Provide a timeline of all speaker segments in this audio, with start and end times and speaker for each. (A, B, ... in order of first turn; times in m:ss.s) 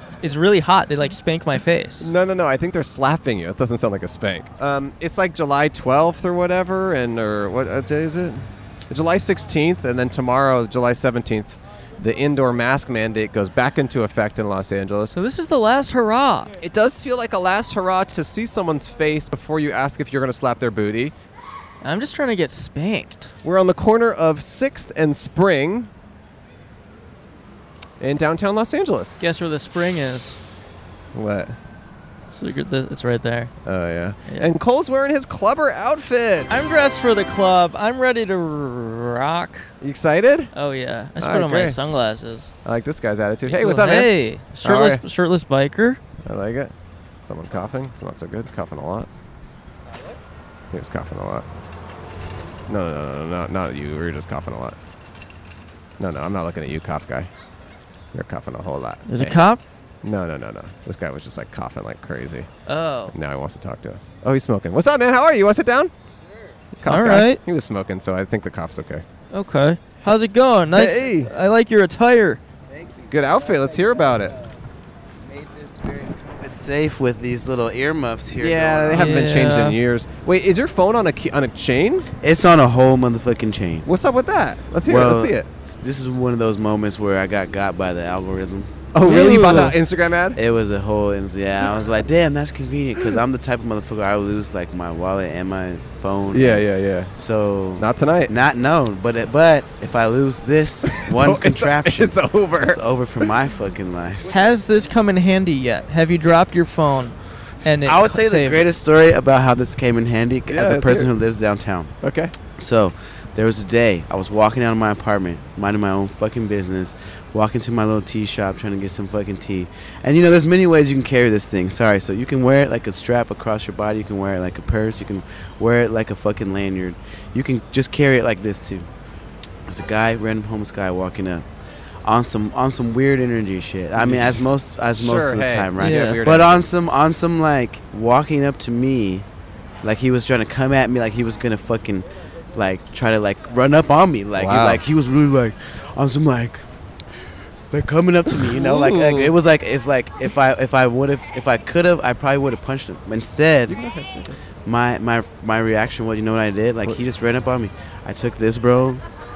0:00.2-0:02.1 A
0:02.0-0:15.1 B
0:15.1-0:16.5 A
0:16.6-0:21.1 B
0:21.8-0:23.3 A
0:23.4-0:25.9 B
0:28.0-0:29.2 B
0:29.2-0:30.4 A
0:31.1-0:31.6 B
0:32.3-0:33.5 A
0:33.6-0:36.6 B
0:34.2-0:34.5 A
0:36.5-0:39.7 A
0:39.8-0:40.5 B
0:40.5-0:42.5 A
0:41.2-0:41.8 B
0:42.6-0:45.0 B
0:43.5-0:46.0 A
0:46.2-0:46.7 B
0:47.2-0:49.1 B
0:50.7-0:51.4 B
0:52.7-0:54.8 B
0:56.0-0:57.3 B
0:58.1-0:59.4 B
0:59.0-0:59.6 A
1:00.0-1:02.5 B
1:02.7-1:03.2 A
1:03.1-1:05.9 B
1:06.8-1:09.0 B
1:06.8-1:07.4 A
1:09.3-1:12.4 A
1:10.7-1:11.3 B
1:13.1-1:14.4 B
1:16.2-1:19.2 C
1:18.4-1:22.1 B
1:18.9-1:19.8 A
1:22.2-1:23.9 C
1:23.8-1:25.5 B
1:24.8-1:29.8 C
1:28.9-1:30.4 B
1:29.0-1:29.7 A
1:30.3-1:44.3 C
1:36.3-1:37.1 B
1:37.8-1:38.3 B
1:41.0-1:42.8 B
1:44.3-1:48.6 A
1:47.8-1:51.9 C
1:50.5-1:51.1 B
1:52.0-1:52.3 B
1:52.6-2:08.9 C
2:09.7-2:11.4 C
2:12.0-2:19.3 C
2:14.0-2:14.4 B
2:14.9-2:16.6 B
2:15.8-2:16.2 A
2:19.8-2:26.7 C
2:24.4-2:24.8 B
2:27.7-2:33.8 C
2:28.5-2:29.3 A
2:33.7-2:34.4 B
2:34.6-2:39.0 C